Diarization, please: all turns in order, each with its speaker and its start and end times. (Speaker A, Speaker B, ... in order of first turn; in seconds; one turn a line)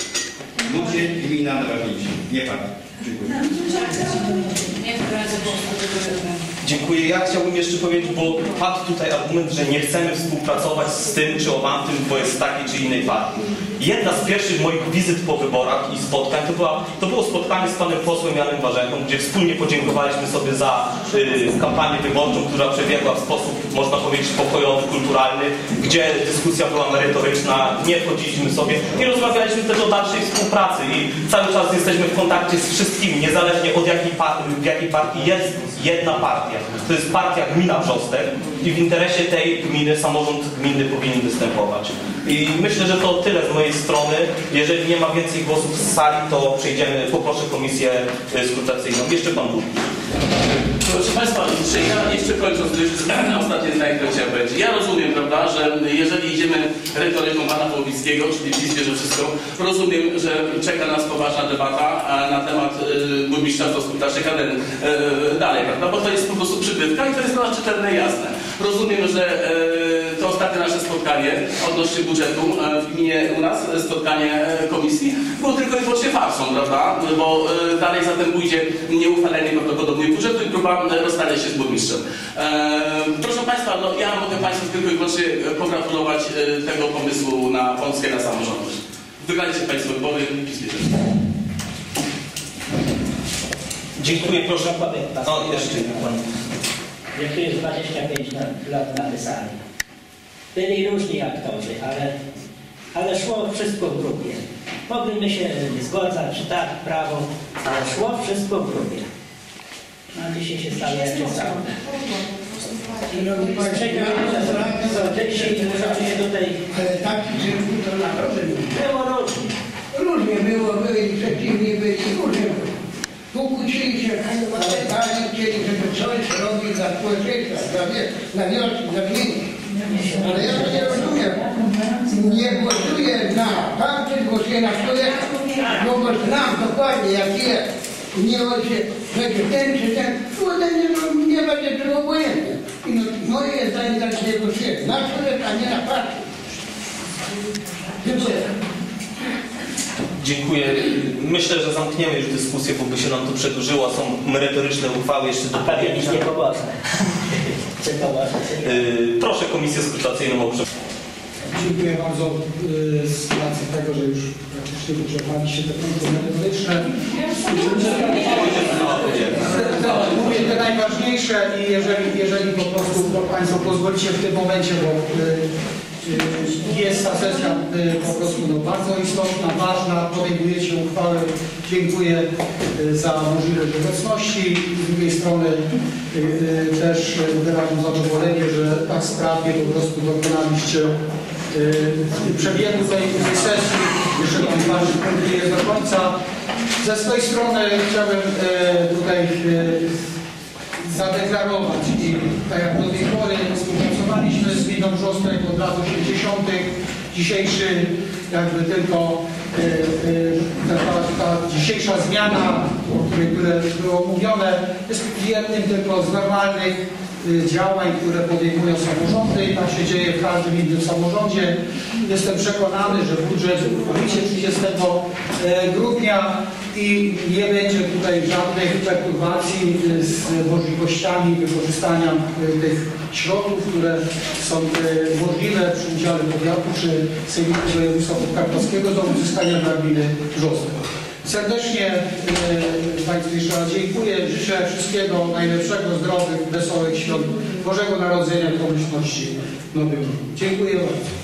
Speaker A: 0.6-3.5
Speaker B: 3.5-6.4
Speaker C: 6.6-49.7
Speaker D: 50.8-91.0
Speaker C: 94.0-96.2
Speaker E: 94.0-96.1
Speaker E: 97.2-99.6
Speaker E: 100.5-102.1
Speaker E: 102.9-109.1
Speaker E: 110.1-111.7
Speaker B: 112.0-112.3
Speaker E: 113.1-116.6
Speaker F: 113.1-116.0
Speaker F: 116.7-118.8
Speaker E: 118.7-119.6
Speaker F: 119.9-122.7
Speaker F: 123.3-131.4
Speaker E: 129.9-131.3
Speaker F: 132.1-146.2
Speaker F: 148.0-148.5
Speaker C: 150.2-156.3
Speaker E: 155.5-158.8
Speaker C: 158.6-160.6
Speaker G: 161.5-166.9
Speaker C: 167.5-169.7
Speaker G: 169.5-175.4
Speaker G: 176.0-185.6
Speaker G: 186.1-190.9
Speaker G: 191.5-196.1
Speaker G: 196.8-199.9
Speaker G: 200.8-251.0